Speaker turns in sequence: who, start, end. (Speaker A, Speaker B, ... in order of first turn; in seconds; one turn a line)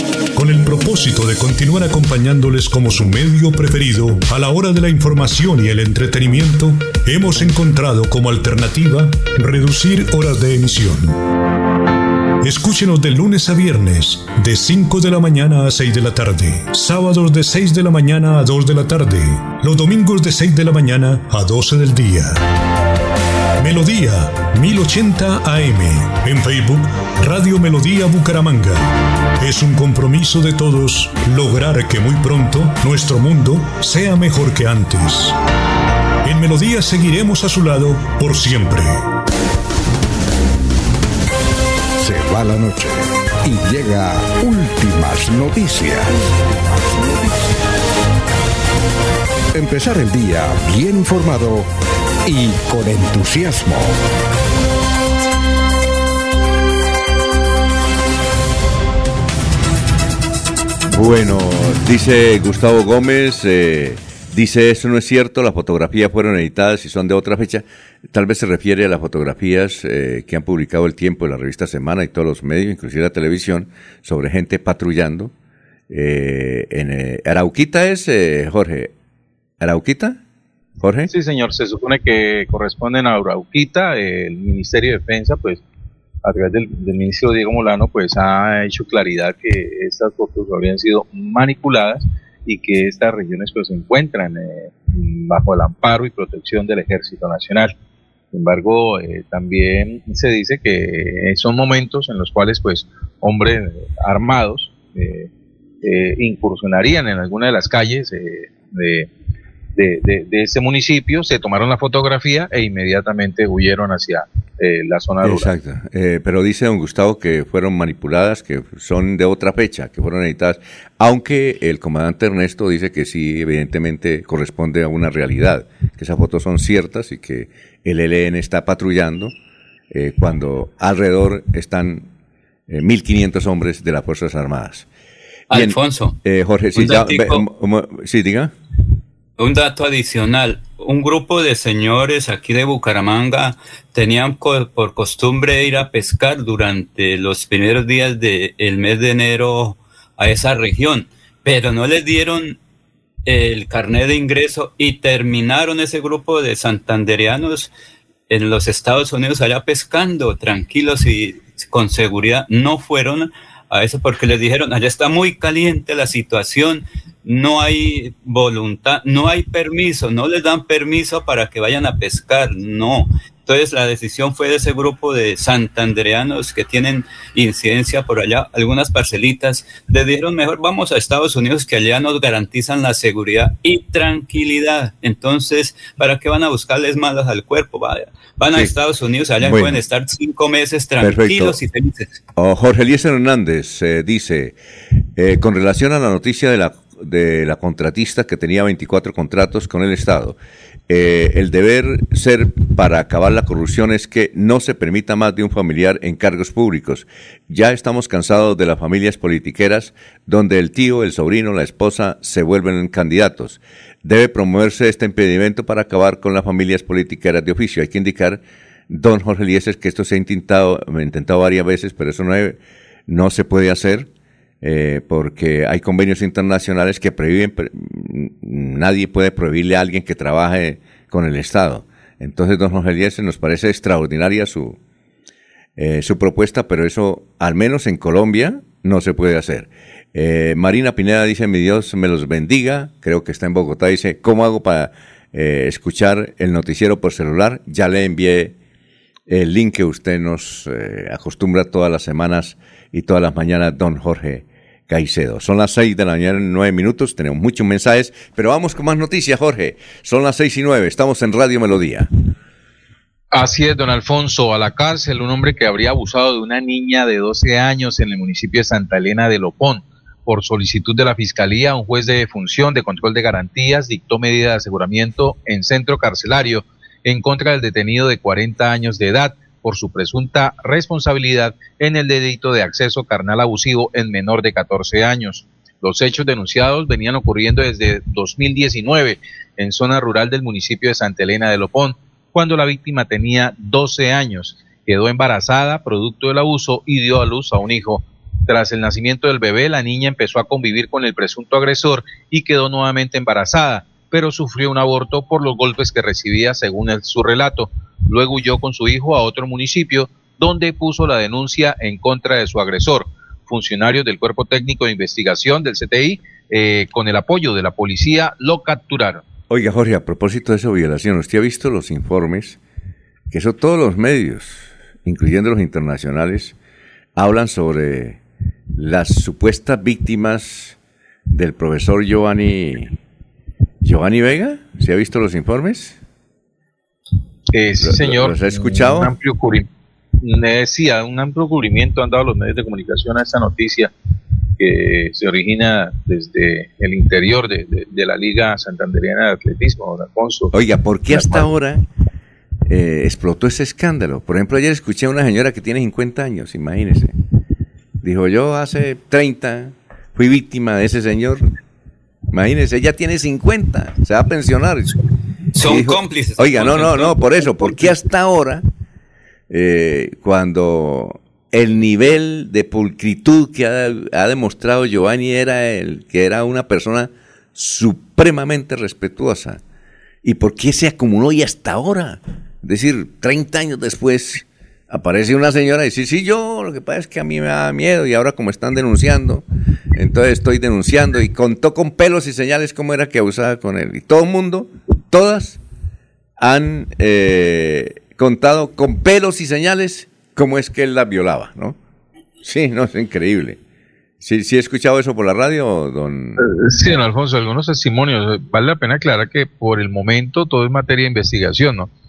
Speaker A: 0.3-11.2
Speaker A: 12.4-22.4
Speaker A: 23.6-35.4
Speaker A: 36.2-39.0
Speaker B: 42.0-46.2
Speaker B: 47.0-47.5
Speaker B: 49.5-51.7
Speaker B: 52.2-54.0
Speaker C: 60.9-75.3
Speaker C: 75.9-78.9
Speaker C: 79.6-80.2
Speaker C: 80.8-81.1
Speaker D: 81.1-85.6
Speaker D: 86.2-97.7
Speaker D: 98.3-105.3
Speaker D: 105.8-109.1
Speaker D: 109.7-115.5
Speaker C: 115.2-129.3
Speaker C: 129.9-132.1
Speaker C: 132.7-134.9
Speaker E: 135.5-136.2
Speaker C: 135.5-138.5
Speaker E: 136.8-137.4
Speaker E: 139.4-152.6
Speaker E: 153.2-157.7
Speaker E: 158.3-192.2
Speaker C: 189.4-189.8
Speaker C: 191.0-191.6
Speaker C: 192.4-194.6
Speaker C: 195.2-224.1
Speaker C: 224.6-234.8
Speaker C: 235.8-248.5
Speaker C: 249.3-262.1
Speaker D: 263.3-319.2
Speaker C: 319.5-322.6
Speaker C: 323.3-326.6
Speaker C: 327.1-328.2
Speaker C: 328.7-330.8
Speaker C: 331.3-333.0
Speaker C: 333.8-336.0
Speaker D: 337.5-339.7
Speaker C: 337.8-339.1
Speaker D: 340.2-343.9
Speaker D: 344.6-350.5
Speaker C: 350.5-351.8
Speaker D: 351.1-351.5
Speaker C: 352.7-357.1
Speaker C: 358.0-361.5
Speaker C: 362.3-364.9
Speaker E: 365.5-367.9
Speaker C: 365.6-368.6
Speaker C: 369.5-379.6
Speaker C: 380.2-395.6
Speaker C: 396.4-401.8
Speaker C: 402.4-403.6
Speaker C: 404.2-406.4
Speaker D: 406.4-411.9